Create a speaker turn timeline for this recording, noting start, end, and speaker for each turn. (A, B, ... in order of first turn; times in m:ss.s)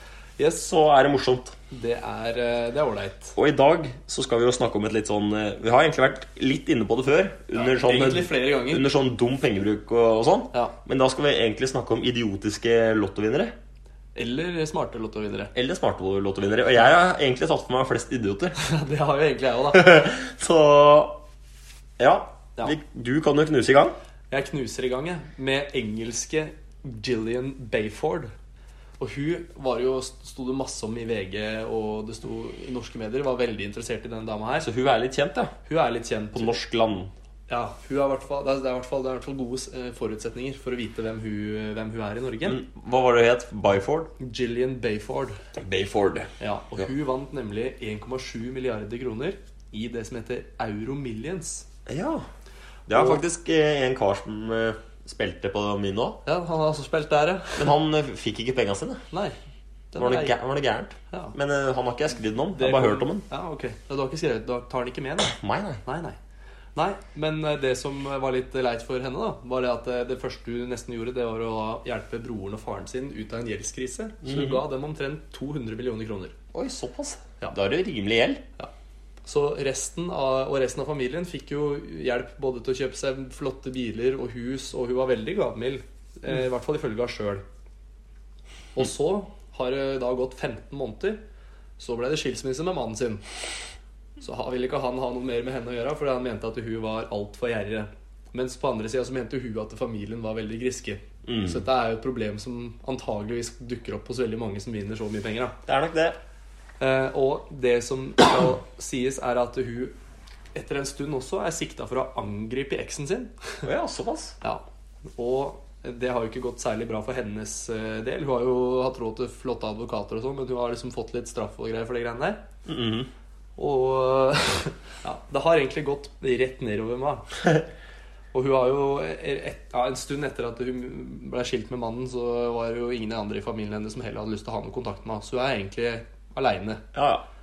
0:00.4-0:00.6 A
0:00.5-0:01.6 B
0:01.7-0:03.3 A
0:03.3-0:13.5 B
0:07.5-0:08.8 A
0:14.1-0:15.5 A
0:15.5-0:18.6 B
0:18.6-0:20.0 A
0:19.7-0:21.2 B
0:22.0-0:23.9 B
0:24.3-0:28.3 A
0:29.0-0:34.7 A
0:34.6-0:35.5 B
0:35.6-0:36.6 A
0:36.3-0:37.1 B
0:37.5-0:42.6 A
0:42.4-0:44.1 B
0:44.2-0:45.4 A
0:45.5-0:46.3 B
0:46.4-0:51.6 A
0:51.8-0:52.2 B
0:52.9-0:56.2 B
0:52.9-0:53.2 A
0:56.2-0:57.7 A
0:57.6-0:59.0 B
0:59.1-0:59.4 A
0:59.9-1:00.3 A
1:00.0-1:03.2 B
1:02.5-1:06.2 A
1:05.2-1:05.8 B
1:06.7-1:16.3 A
1:14.2-1:14.6 B
1:16.5-1:18.4 B
1:19.2-1:27.4 A
1:28.7-1:31.2 A
1:31.8-1:33.2 A
1:34.2-1:45.6 A
1:41.2-1:41.6 B
1:45.6-1:46.2 B
1:46.8-1:49.9 A
1:50.5-1:53.6 A
1:53.6-1:54.4 B
1:55.1-2:02.4 A
2:02.6-2:03.1 B
2:03.6-2:07.3 A
2:08.3-2:16.8 A
2:16.9-2:17.2 B